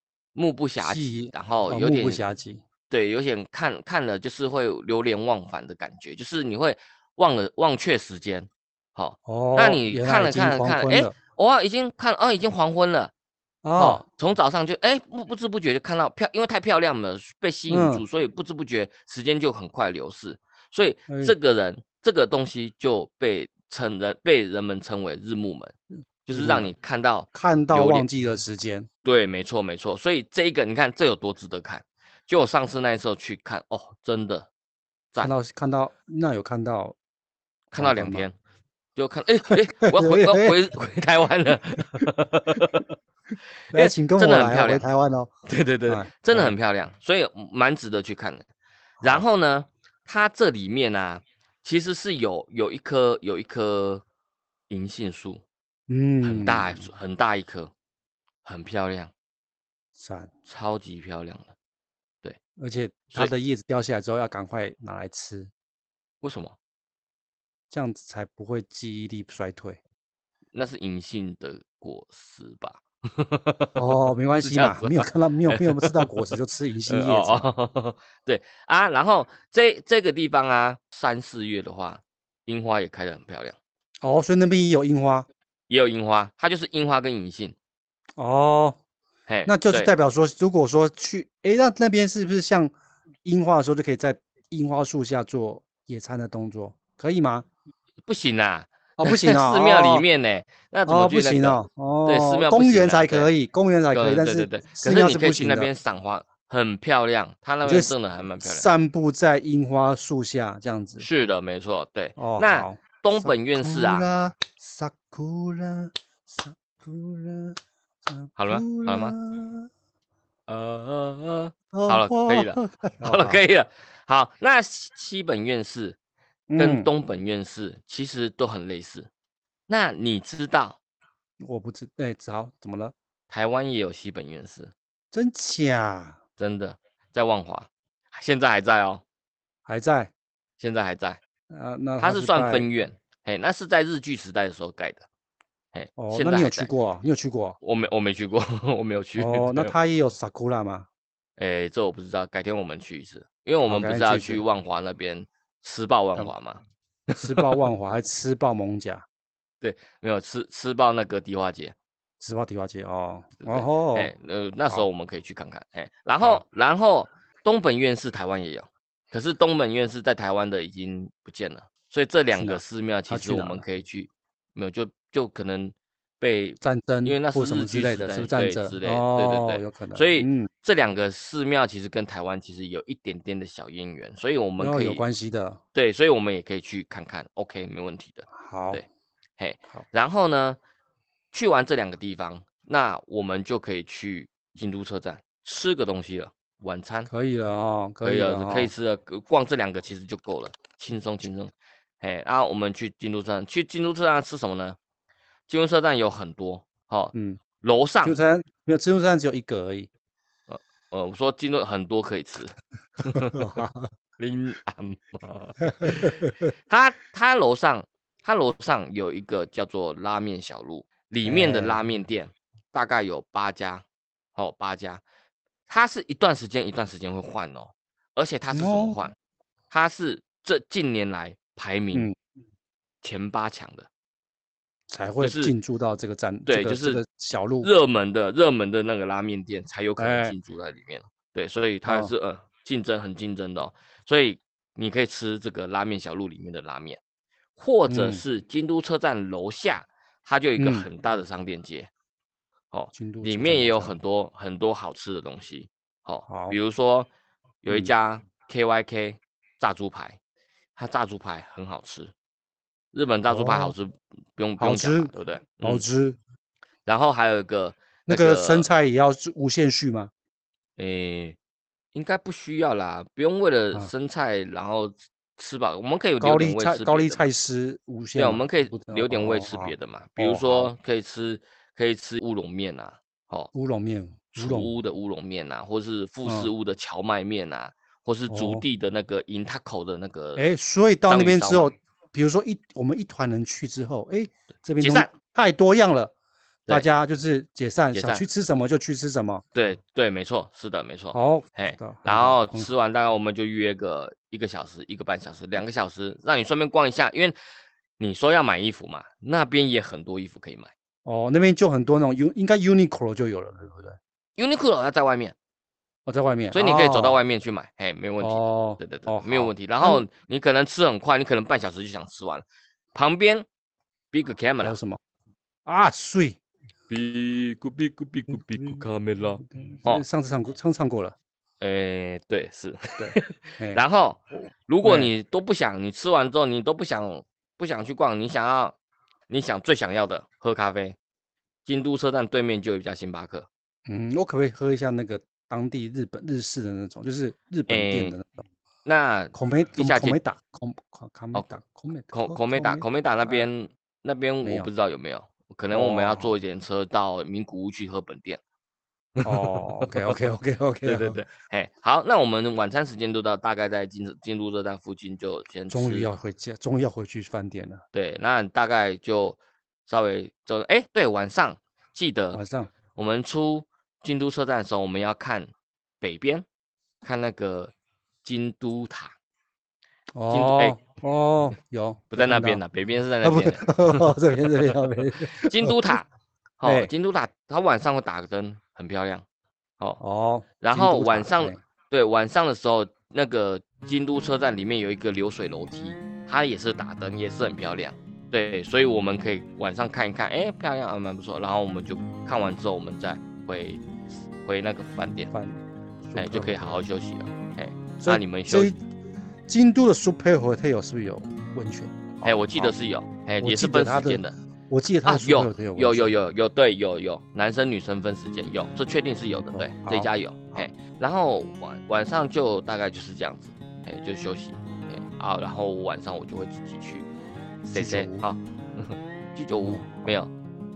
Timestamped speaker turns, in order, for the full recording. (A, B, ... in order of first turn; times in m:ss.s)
0:00.3-0:02.2 A
0:00.8-0:02.6 B
0:02.9-0:13.1 A
0:09.2-0:11.1 B
0:13.6-0:14.0 B
0:13.8-0:25.7 A
0:17.7-0:18.0 B
0:21.1-0:21.3 B
0:26.2-0:28.0 A
0:26.3-0:26.7 B
0:27.3-0:28.9 B
0:29.0-0:34.5 A
0:35.2-0:37.0 B
0:37.7-0:38.3 A
0:37.8-0:38.2 B
0:39.0-0:42.8 A
0:39.8-0:40.5 B
0:43.7-0:44.8 A
0:43.7-0:45.3 B
0:45.5-0:48.4 A
0:45.9-0:46.5 B
0:49.0-0:54.0 A
0:54.7-0:55.4 A
0:55.9-0:56.9 B
0:56.2-0:57.7 A
0:58.4-0:59.1 A
1:00.0-1:00.3 B
1:00.5-1:01.5 A
1:02.6-1:05.5 B
1:06.2-1:06.6 A
1:07.7-1:09.8 B
1:10.5-1:16.3 A
1:13.8-1:17.5 B
1:16.9-1:23.6 A
1:24.0-1:25.3 B
1:25.7-1:27.5 A
1:28.2-1:28.8 B
1:29.3-1:29.9 A
1:29.5-1:32.7 B
1:33.2-1:37.4 B
1:38.0-1:43.3 A
1:39.0-1:40.0 B
1:40.8-1:45.7 B
1:43.9-1:48.7 A
1:47.6-1:51.0 B
1:51.0-1:54.1 A
1:52.2-1:59.7 B
1:58.4-1:59.1 A
2:00.5-2:06.0 A
2:01.7-2:03.4 B
2:06.5-2:06.9 B
2:06.6-2:09.1 A
2:09.7-2:10.8 A
2:11.4-2:12.9 B
2:13.3-2:14.7 A
2:15.1-2:16.2 B
2:16.4-2:19.0 A
2:19.6-2:20.1 B
2:20.6-2:21.2 A
2:21.5-2:22.7 B
2:22.0-2:25.1 A
2:25.7-2:26.7 A
2:26.0-2:27.6 B
2:27.6-2:29.7 A
2:29.2-2:30.9 B
2:31.4-2:37.6 A
2:33.6-2:34.4 B
2:37.2-2:39.0 B
2:39.6-2:41.7 A
2:42.2-2:44.1 B
2:43.4-3:05.0 A
2:52.3-2:53.6 B
2:56.6-3:00.5 B
3:04.6-3:05.6 B
3:05.7-3:08.8 A
3:08.3-3:08.8 B
3:09.4-3:10.6 A
3:11.3-3:17.1 A
3:17.1-3:18.7 B
3:18.0-3:24.8 A
3:25.5-3:28.2 A
3:27.1-3:27.4 B
3:28.0-3:29.9 B
3:30.5-3:33.5 A
3:33.3-3:33.8 B
3:34.2-3:43.8 A
3:35.8-3:36.1 B
3:41.2-3:41.8 B
3:44.3-3:45.0 A
3:45.7-3:49.1 A
3:48.5-3:49.0 B
3:49.7-3:52.1 A
3:53.0-3:53.9 A
3:54.9-3:57.7 B
3:55.2-3:55.5 A
3:56.4-3:57.0 A
3:57.6-4:07.0 A
4:00.0-4:00.3 B
4:01.8-4:02.1 B
4:07.6-4:11.9 A
4:07.9-4:08.2 B
4:10.6-4:10.9 B
4:12.7-4:17.1 A
4:12.9-4:13.9 B
4:16.3-4:16.6 B
4:17.6-4:20.2 A
4:20.8-4:22.1 A
4:22.9-4:25.8 A
4:23.3-4:23.7 B
4:24.6-4:26.2 B
4:26.8-4:28.7 A
4:28.1-4:30.1 B
4:30.8-4:31.4 A
4:31.9-4:37.2 A
4:36.2-4:40.7 B
4:38.2-4:43.5 A
4:43.5-4:44.7 B
4:44.3-4:50.5 A
4:46.2-4:46.5 B
4:48.3-4:48.6 B
4:50.4-4:56.1 B
4:51.1-4:51.7 A
4:54.8-4:55.1 A
4:56.7-4:59.4 B
4:57.9-4:58.2 A
4:59.5-5:07.4 A
5:01.1-5:02.7 B
5:08.0-5:10.7 A
5:11.0-5:14.0 B
5:14.4-5:15.3 A
5:16.0-5:17.2 B
5:16.5-5:23.4 A
5:18.2-5:20.0 B
5:24.1-5:24.8 A
5:24.6-5:25.0 B
5:25.6-5:26.4 B
5:26.9-5:30.0 A
5:28.3-5:28.8 B
5:29.4-5:31.2 B
5:31.6-5:38.7 A
5:33.0-5:33.8 B
5:34.8-5:35.1 B
5:39.3-5:41.0 A
5:41.6-5:43.5 A
5:43.9-5:48.4 B
5:47.7-5:48.2 A
5:48.8-5:50.2 A
5:49.3-5:53.5 B
5:52.1-5:58.4 A
5:54.4-5:54.7 B
5:55.7-5:56.3 B
5:59.2-6:00.2 A
5:59.2-6:01.2 B
6:00.8-6:06.1 A
6:05.7-6:07.8 B
6:07.9-6:12.4 A
6:12.3-6:12.7 B
6:12.9-6:16.4 A
6:17.0-6:17.7 A
6:18.2-6:19.1 A
6:20.1-6:22.6 B
6:20.3-6:20.8 A
6:22.1-6:24.8 A
6:23.2-6:25.9 B
6:25.3-6:26.1 A
6:26.6-6:29.2 A
6:26.6-6:26.9 B
6:30.0-6:31.6 B
6:30.6-6:43.8 A
6:44.4-6:45.3 A
6:45.3-6:46.8 B
6:46.2-6:48.7 A
6:48.0-6:48.8 B
6:49.5-6:52.7 B
6:52.2-6:54.3 A
6:53.4-6:56.1 B
6:55.0-7:07.1 A
6:59.5-7:00.7 B
7:07.6-7:08.2 B
7:07.7-7:10.3 A
7:09.6-7:10.1 B